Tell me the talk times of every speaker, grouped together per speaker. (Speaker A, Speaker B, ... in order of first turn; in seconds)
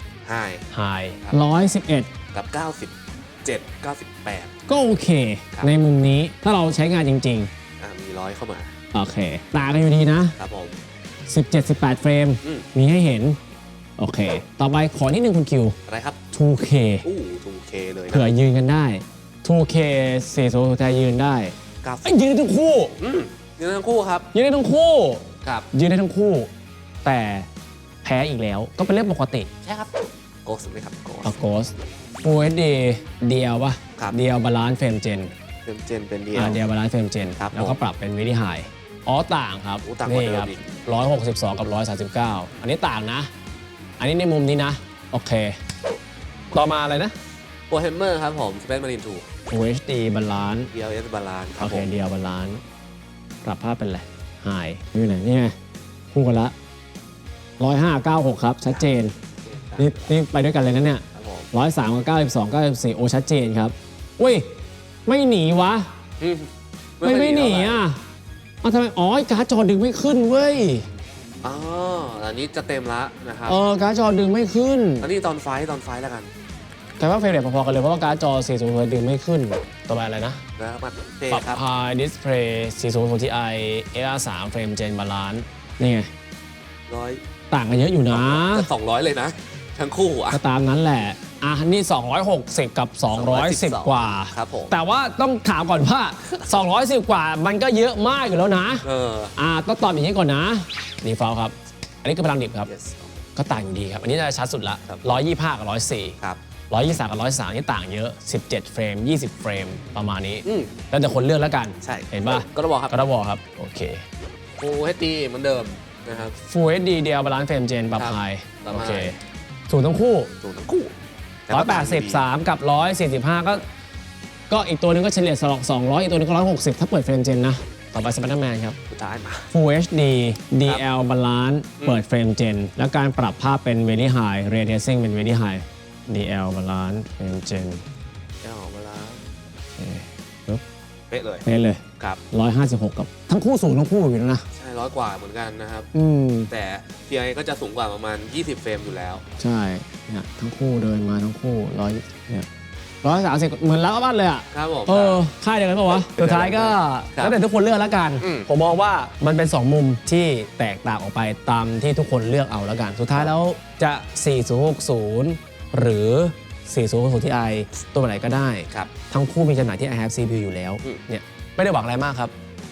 Speaker A: 0.2-0.7, 2.3-4.5, 7.8-8.7, 10.4-10.8, 15.9-16.2, 17.0-18.3, 21.8-22.1, 23.0-24.3, 25.4-25.7, 29.6-29.9, 30.4-31.4, 35.6-36.6, 37.4-37.8, 39.8-40.6, 47.7-49.3, 50.7-51.9, 58.7-60.2, 61.1-61.5, 66.2-67.8, 71.4-73.6, 75.0-76.3, 80.6-81.6, 86.9-87.2, 88.1-90.4, 93.1-94.7, 98.8-99.3, 102.7-103.1, 104.9-105.2, 110.5-110.8, 111.8-113.0, 114.6-116.4, 118.0-119.2, 120.4-121.0, 121.5-122.3, 128.9-129.5, 138.4-139.3, 141.1-141.5, 144.5-145.9, 146.5-149.2, 154.5-155.2, 156.0-157.4, 158.2-158.5
Speaker B: 0.7-2.1, 4.7-7.5, 8.9-10.4, 11.3-13.4, 14.0-15.8, 16.3-17.1, 18.1-22.9, 24.3-26.5, 27.0-27.5, 28.0-29.5, 31.2-35.3, 36.3-43.3, 44.0-45.6, 46.5-47.1, 49.5-50.7, 51.6-52.6, 53.4-55.6, 56.1-56.5, 57.6-59.1, 59.8-64.5, 65.1-65.9, 67.0-68.0, 68.6-70.9, 73.5-75.1, 77.0-80.4, 81.3-86.1, 87.5-88.7, 90.3-102.7, 103.4-106.2, 106.7-114.0, 116.4-120.3, 121.5-123.7, 124.5-128.8, 129.5-137.8, 139.8-140.6, 141.4-144.5, 145.9-146.5, 149.4-152.5, 153.0-172.3